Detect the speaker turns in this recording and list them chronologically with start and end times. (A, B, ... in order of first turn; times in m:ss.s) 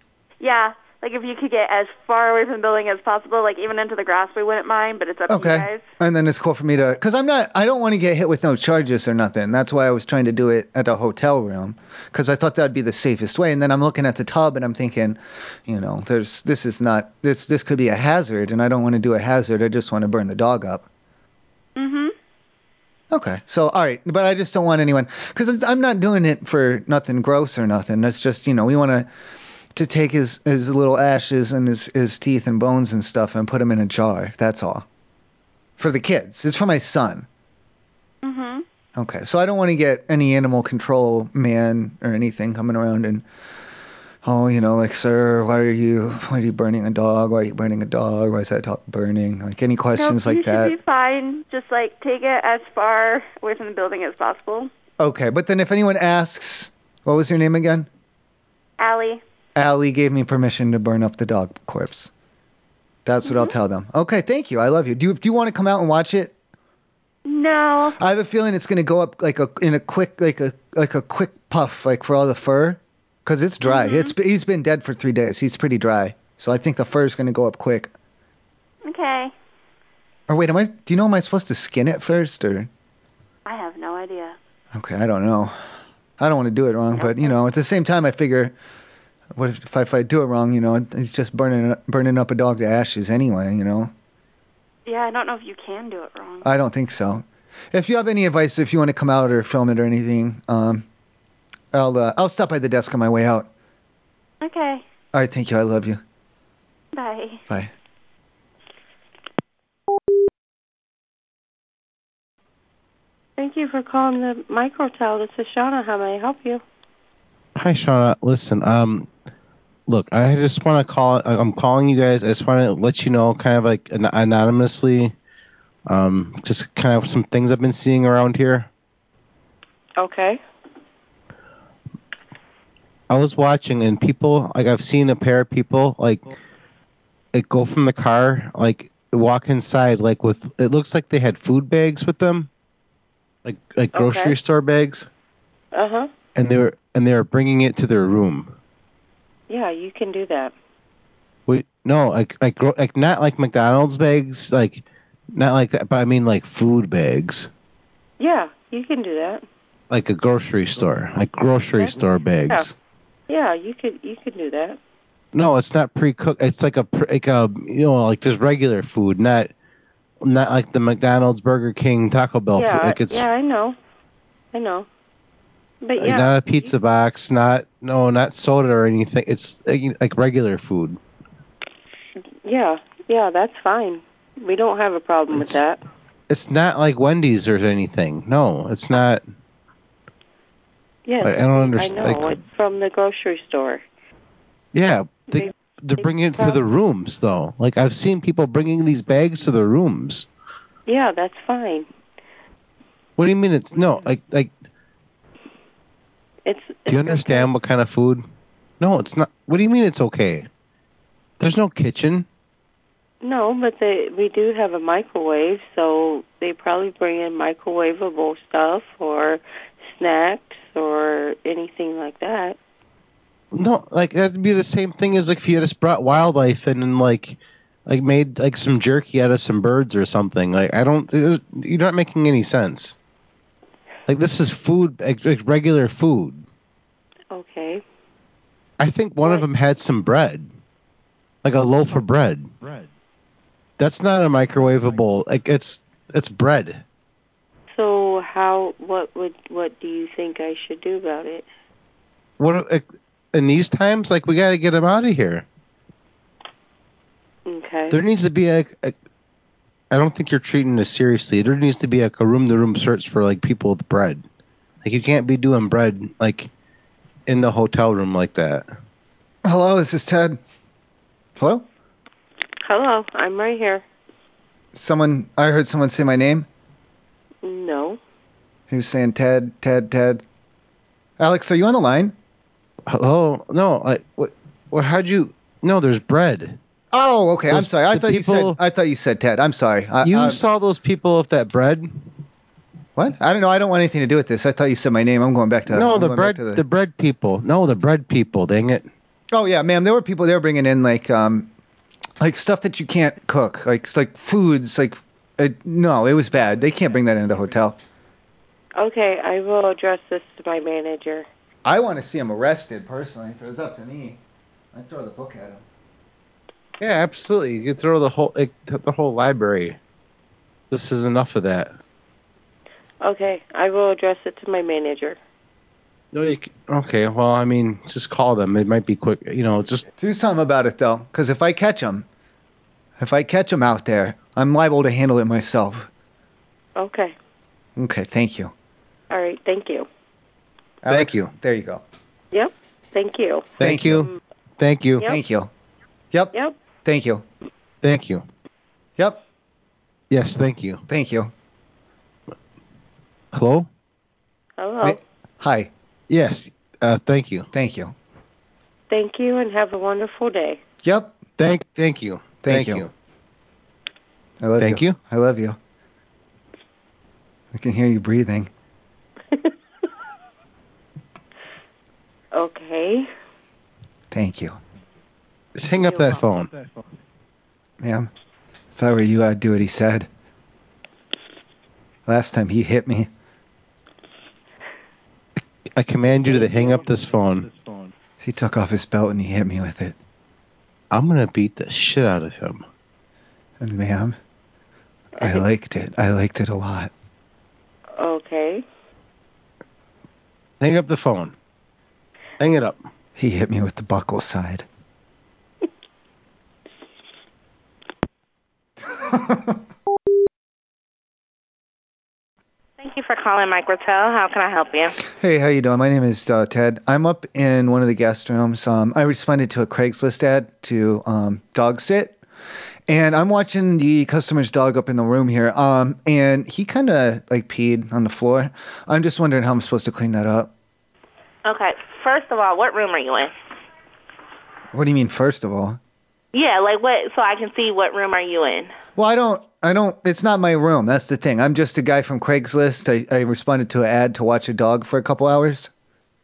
0:00.4-0:05.9 A
0:05.3-0:20.8 B
0:21.8-0:22.1 A
0:23.1-0:29.1 B
0:29.7-0:34.8 B
0:35.8-0:37.3 B
0:38.2-0:38.6 A
0:39.0-0:43.2 B
0:44.2-0:50.7 B
0:49.9-0:54.7 A
0:55.0-0:57.9 B
0:58.8-0:59.2 A
0:59.6-1:02.1 B
1:03.0-1:06.3 B
1:03.2-1:03.5 A
1:07.2-1:08.0 A
1:08.0-1:17.9 B
1:13.6-1:14.1 A
1:18.8-1:19.3 A
1:20.3-1:22.7 B
1:23.4-1:24.4 A
1:24.7-1:25.5 B
1:26.2-1:28.5 B
1:26.9-1:27.4 A
1:29.3-1:33.9 B
1:34.8-1:36.5 A
1:36.4-1:40.8 B
1:41.7-1:43.5 B
1:44.4-1:44.8 A
1:45.1-1:46.0 B
1:46.9-1:47.4 A
1:53.4-1:56.6 C
1:57.6-1:59.1 D
1:59.9-2:05.1 D
2:05.9-2:08.7 D
2:10.0-2:10.4 C
2:13.1-2:16.3 D
2:17.3-2:22.5 D
2:23.4-2:25.1 D
2:23.9-2:24.3 C
2:25.7-2:26.1 C
2:26.4-2:28.5 D
2:29.5-2:30.5 C
2:31.5-2:37.5 D
2:38.2-2:39.4 C
2:39.9-2:42.7 D
2:41.8-2:42.7 C
2:43.3-2:44.8 C
2:45.3-2:49.5 D
2:50.2-2:53.2 D
2:52.5-2:53.8 C
2:54.5-2:54.9 C
2:55.8-2:56.7 C
2:56.0-3:01.0 D
3:02.4-3:05.8 C
3:05.3-3:05.6 D
3:06.3-3:09.2 D
3:11.0-3:13.8 C
3:11.2-3:12.3 D
3:14.7-3:20.3 D
3:15.3-3:16.6 C
3:20.8-3:21.9 C
3:23.2-3:24.5 D
3:26.4-3:27.5 C
3:26.9-3:28.2 D
3:28.8-3:30.5 D
3:31.4-3:32.2 D
3:33.2-3:42.6 C
3:43.5-3:52.9 D
3:54.1-3:56.4 D
3:57.3-3:57.8 C
3:58.8-4:00.5 D
4:01.4-4:02.5 D
4:03.8-4:06.8 D
4:07.7-4:11.4 C
4:12.4-4:15.4 D
4:17.4-4:18.0 C
4:17.9-4:18.9 D
4:19.9-4:24.2 D
4:24.8-4:26.5 D
4:27.3-4:28.7 D
4:29.4-4:30.4 B
4:31.4-4:31.6 B
4:32.6-4:33.8 C
4:34.7-4:36.5 B
4:37.4-4:38.0 C
4:38.7-4:40.2 B
4:41.2-4:42.1 B
4:42.9-4:46.6 D
4:46.9-4:50.4 B
4:47.5-4:48.6 D
4:50.0-4:52.0 D
4:53.0-4:56.6 B
4:55.7-4:58.8 D
4:59.3-5:01.5 B
5:02.2-5:07.8 B
5:08.8-5:11.3 C
5:11.6-5:14.2 B
5:14.7-5:15.6 B
5:16.8-5:19.8 D
5:20.7-5:21.7 D
5:23.0-5:25.2 C
5:26.1-5:29.9 D
5:30.0-5:32.0 B
5:33.0-5:35.9 B
5:36.8-5:37.2 C
5:37.8-5:38.5 B
5:39.1-5:39.9 C
5:40.8-5:41.8 B
5:40.9-5:41.3 D
5:42.3-5:43.5 C
5:43.6-5:44.1 B
5:43.6-5:45.1 D
5:45.0-5:45.5 B
5:46.8-5:47.2 B
5:47.8-5:48.2 D
5:50.1-5:50.8 D
5:50.9-5:51.3 B
5:53.3-5:53.7 D
5:54.6-5:55.0 C
5:54.8-5:55.7 B
5:56.1-5:57.5 D
5:57.5-5:57.9 B
5:58.9-6:00.6 C
6:00.8-6:01.2 B
6:01.4-6:02.9 D
6:02.4-6:02.8 B
6:04.4-6:05.6 B
6:04.6-6:05.0 D
6:07.5-6:08.5 B
6:12.3-6:13.1 C
6:14.1-6:14.6 B
6:15.6-6:16.5 D
6:15.7-6:16.2 C
6:17.8-6:18.1 B
6:18.8-6:20.1 B
6:22.1-6:23.1 B
6:25.8-6:27.5 D
6:28.2-6:30.0 B
6:30.9-6:32.6 D
6:33.6-6:34.2 B
6:35.2-6:36.9 B
6:38.0-6:38.6 C
6:40.6-6:41.3 D
6:42.4-6:42.8 D
6:43.2-6:44.6 B
6:48.9-6:49.6 B
6:52.8-6:55.0 E
6:55.1-7:02.2 B
7:02.9-7:10.5 B
7:11.4-7:13.3 E
7:14.7-7:15.8 B
7:16.3-7:18.7 E
7:19.0-7:25.7 B